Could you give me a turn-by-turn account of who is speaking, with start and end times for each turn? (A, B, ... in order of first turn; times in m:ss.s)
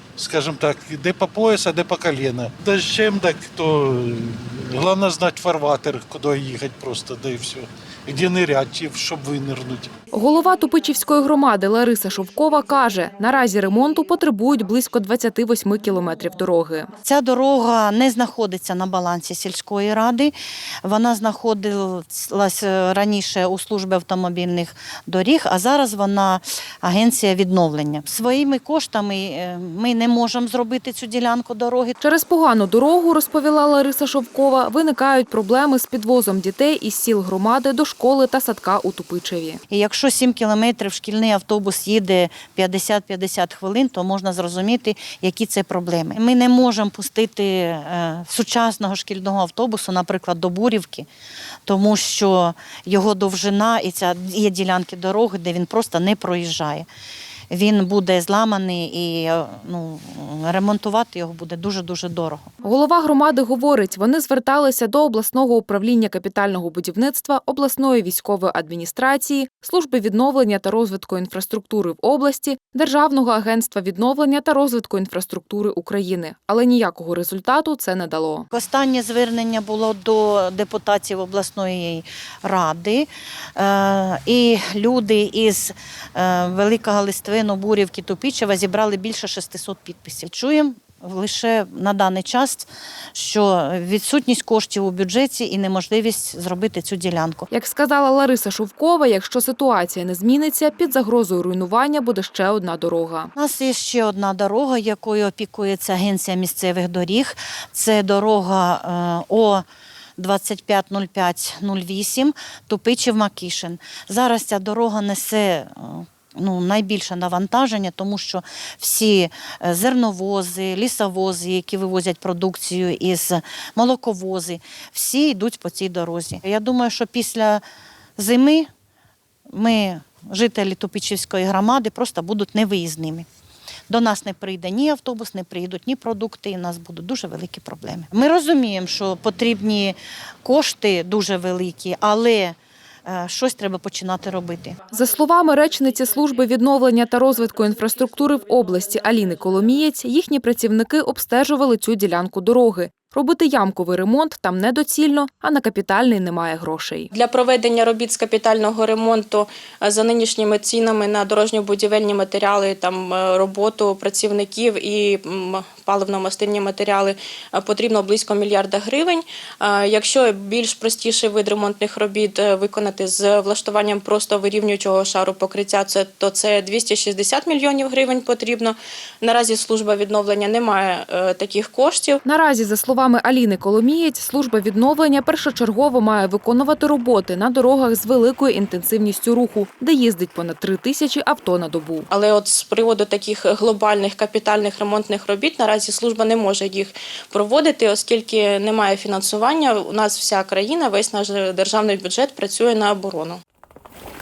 0:00.2-0:09.9 A
0:10.1-0:16.9 B
0:17.0-0:32.0 C
0:32.0-0:39.6 B
0:39.7-0:51.1 C
0:51.6-0:56.9 C
0:57.5-1:02.5 C
1:02.6-1:18.5 B
1:18.5-1:37.5 C
1:37.5-1:43.3 B
1:43.4-1:49.6 C
1:50.2-2:07.6 C
2:08.2-2:08.7 C
2:09.5-2:13.3 C
2:13.9-2:24.8 C
2:24.9-2:37.1 B
2:37.1-3:02.2 D
3:02.2-3:12.1 B
3:12.1-3:23.4 D